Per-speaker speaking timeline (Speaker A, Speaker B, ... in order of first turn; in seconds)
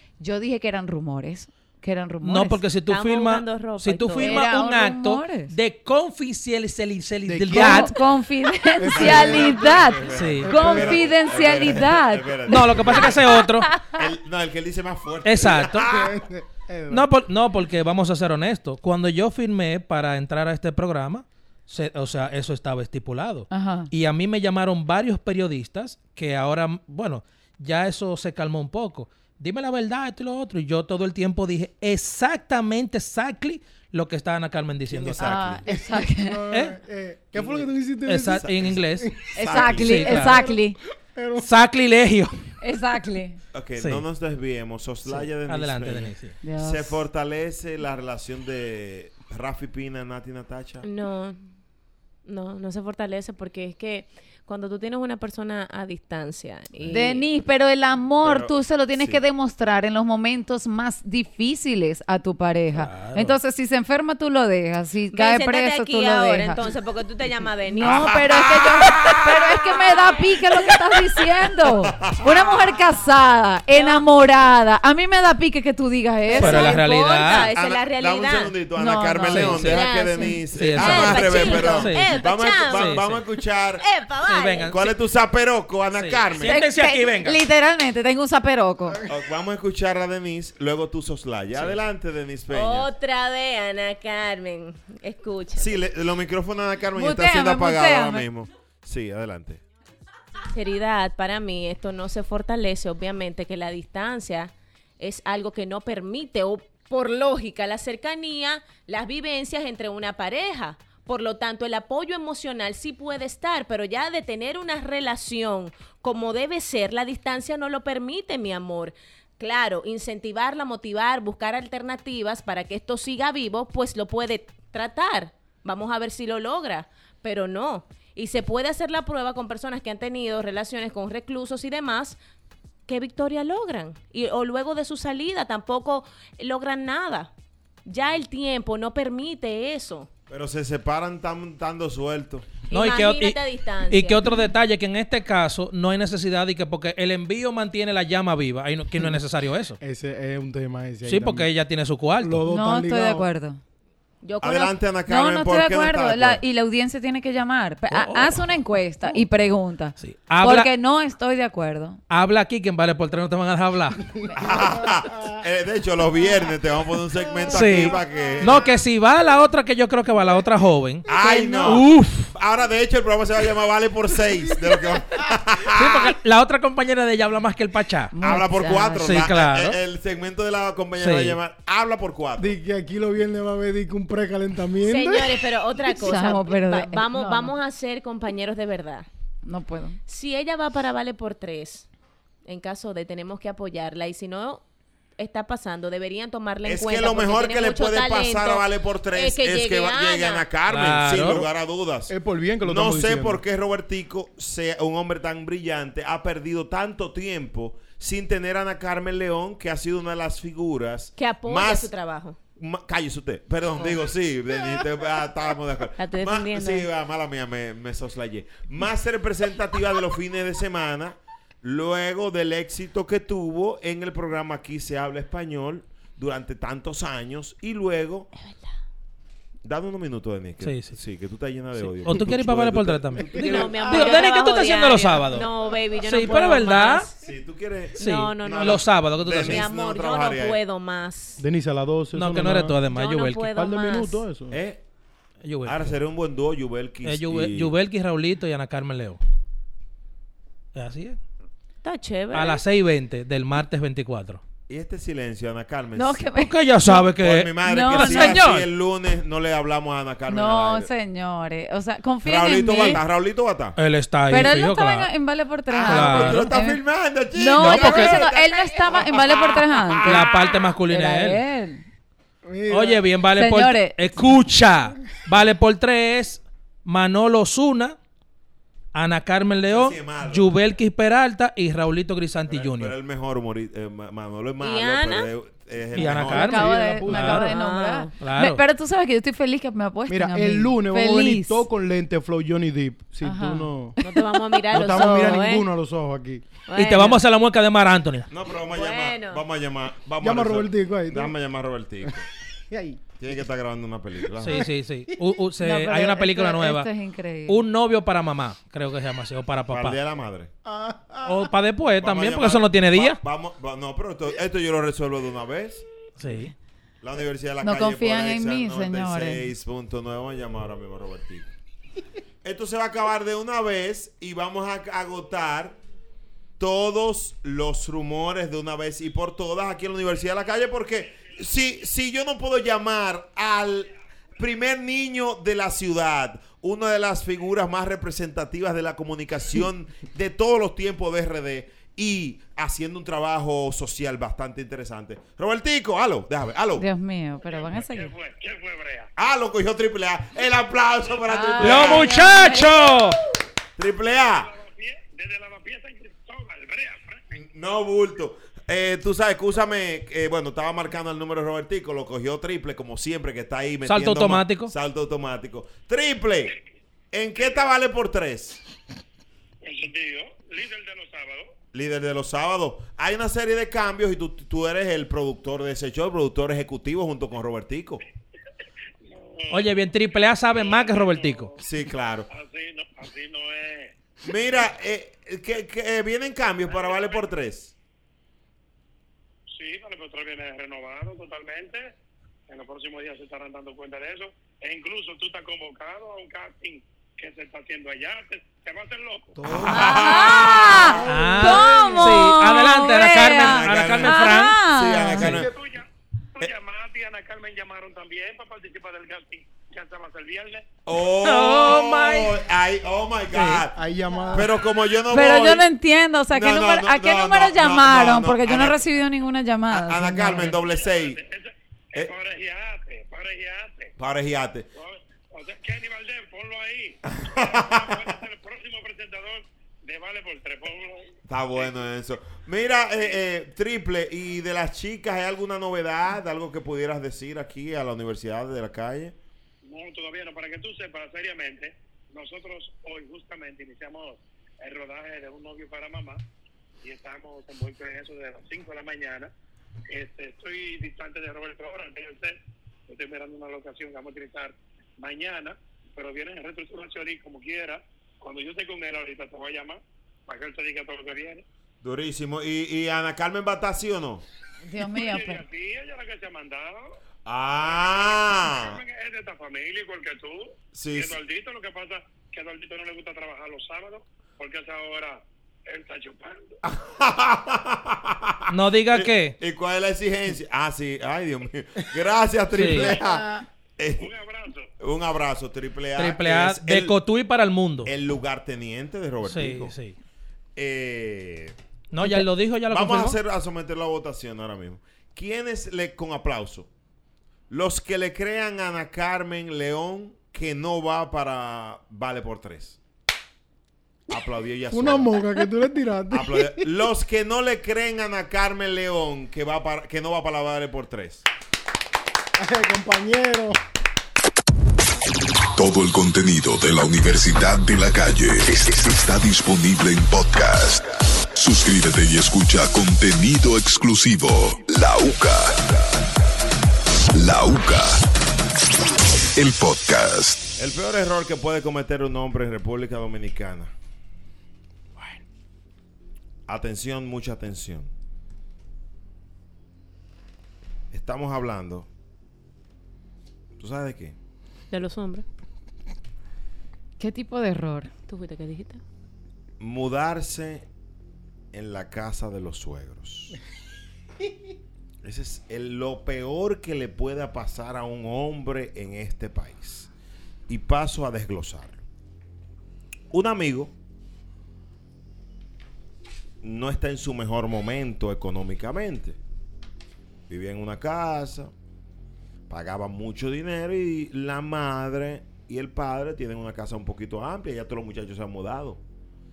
Speaker A: 0.2-2.6, 4.2-5.5, 7.5-13.9, 23.5-23.9, 35.2-36.4, 39.4-40.8, 42.6-43.4, 46.4-47.0, 56.9-66.6, 67.7-76.8, 78.7-80.4, 86.4-89.0, 96.9-98.2, 152.5-153.6, 155.1-162.0, 178.1-178.9, 185.9-187.6, 189.4-190.0, 255.9-258.6, 260.3-263.0, 264.3-266.8, 267.3-270.3, 270.9-271.8, 273.3-274.2, 286.1-291.6, 293.2-293.7, 305.6-307.6, 317.6-319.4, 346.8-348.1, 351.3-352.9, 399.9-405.4, 415.1-420.6, 464.6-465.4, 547.0-547.9
Speaker B: 2.2-7.9, 10.1-10.5, 12.5-13.7, 15.2-15.9, 16.9-35.2, 36.5-36.8, 38.0-39.1, 39.8-40.4, 41.4-42.4, 45.1-46.4, 62.7-63.4, 76.3-77.5, 79.3-79.8, 80.5-83.1, 84.3-84.8, 86.0-87.4, 142.7-149.8, 151.1-152.5, 157.9-158.6, 160.0-160.7, 162.1-164.0, 167.5-172.3, 175.8-178.1, 179.0-179.8, 181.0-181.4, 200.7-201.4, 230.6-230.9, 231.8-235.5, 236.0-237.1, 238.0-239.6, 242.2-243.5, 245.4-245.9, 247.0-249.2, 250.8-251.2, 252.3-254.4, 256.4-258.7, 263.8-265.1, 265.8-266.5, 267.5-268.2, 270.0-271.4, 272.7-278.0, 278.9-282.9, 285.9-287.5, 288.2-288.6, 296.8-298.3, 304.4-306.9, 307.5-310.0, 311.3-313.2, 316.2-316.5, 351.6-353.2, 363.9-364.7, 379.5-381.5, 401.0-404.6, 411.2-412.4, 413.3-413.7, 478.5-479.4, 482.6-482.9, 486.0-487.9, 489.3-489.9, 491.9-493.2
Speaker C: 2.9-4.5, 50.8-51.5, 52.3-57.3, 65.1-68.5, 73.7-74.1, 76.3-78.6, 79.5-83.1, 83.8-84.9, 92.5-95.8, 100.5-132.2, 132.9-137.3, 137.8-140.1, 142.7-144.3, 154.2-154.8, 178.5-179.2, 184.9-189.1, 190.1-191.9, 192.4-194.6, 195.2-200.5, 211.2-212.4, 216.0-216.9, 233.3-237.1, 238.0-241.4, 242.9-244.2, 251.8-252.6, 284.6-285.3, 287.3-288.1, 294.0-295.7, 296.7-297.2, 298.6-299.4, 399.7-400.6, 401.5-402.0, 544.7-545.2, 548.1-548.8
Speaker D: 7.2-8.0, 8.8-9.8, 10.5-11.0, 15.8-17.1, 34.9-41.5, 149.8-151.5, 152.2-153.3, 182.4-185.4, 202.1-203.4, 241.4-242.8, 243.5-244.6, 272.4-273.2, 286.2-287.4, 290.1-294.0, 294.7-296.4, 300.2-301.3, 302.7-303.0, 310.6-311.5, 399.4-400.1, 401.1-402.1, 405.2-405.5, 413.7-414.5, 482.8-483.4, 504.7-506.7, 512.4-513.6
Speaker E: 8.9-13.3, 13.9-16.2, 35.1-35.6, 37.4-37.7, 38.4-40.2, 43.5-50.9, 56.8-57.0, 58.2-59.2, 67.8-69.7, 71.9-72.5, 76.4-76.7, 77.3-83.8, 84.7-86.6, 89.1-92.9, 95.6-99.6, 140.3-142.5, 154.4-156.4, 164.3-168.7, 171.1-176.2, 178.2-182.6, 196.7-211.9, 212.6-228.3, 229.6-234.3, 237.2-240.6, 244.5-244.8, 245.6-247.7, 254.7-256.2, 256.9-260.9, 262.2-263.8, 265.7-270.7, 279.7-280.5, 282.5-286.7, 298.3-302.3, 303.2-304.7, 309.7-310.5, 312.0-315.8, 317.0-321.5, 322.4-325.8, 326.6-346.9, 349.2-352.3, 353.8-354.5, 357.3-366.6, 367.1-368.6, 371.7-378.0, 381.6-382.3, 384.2-387.7, 399.4-401.0, 403.2-405.5, 410.9-413.7, 414.3-415.7, 416.3-418.9, 419.7-421.2, 424.0-424.7, 427.1-428.1, 431.3-439.1, 461.8-464.2, 467.2-468.8, 470.7-471.2, 476.6-484.1, 484.8-486.9, 487.9-489.8, 490.6-491.6, 492.7-496.7, 497.5-502.8, 504.1-505.2, 506.1-511.2, 530.6-533.7, 536.5-537.9, 540.9-541.9, 543.6-544.2, 549.6-550.7, 551.5-553.4, 555.0-559.9, 560.5-561.8, 563.1-563.7, 566.4-569.2, 570.3-571.5, 572.5-578.8
Speaker F: 347.4-349.1, 354.4-357.2, 367.4-367.6, 369.6-371.5, 379.1-381.6, 382.3-383.9, 386.7-387.3, 389.6-391.9, 392.5-399.3, 405.5-405.9, 406.4-410.7, 420.4-423.9, 424.8-431.7, 432.9-433.2, 439.6-446.2, 446.8-449.3, 449.9-461.4, 464.9-467.0, 468.1-476.6, 484.0-484.7
Speaker G: 515.5-525.8, 527.1-528.1, 529.4-530.5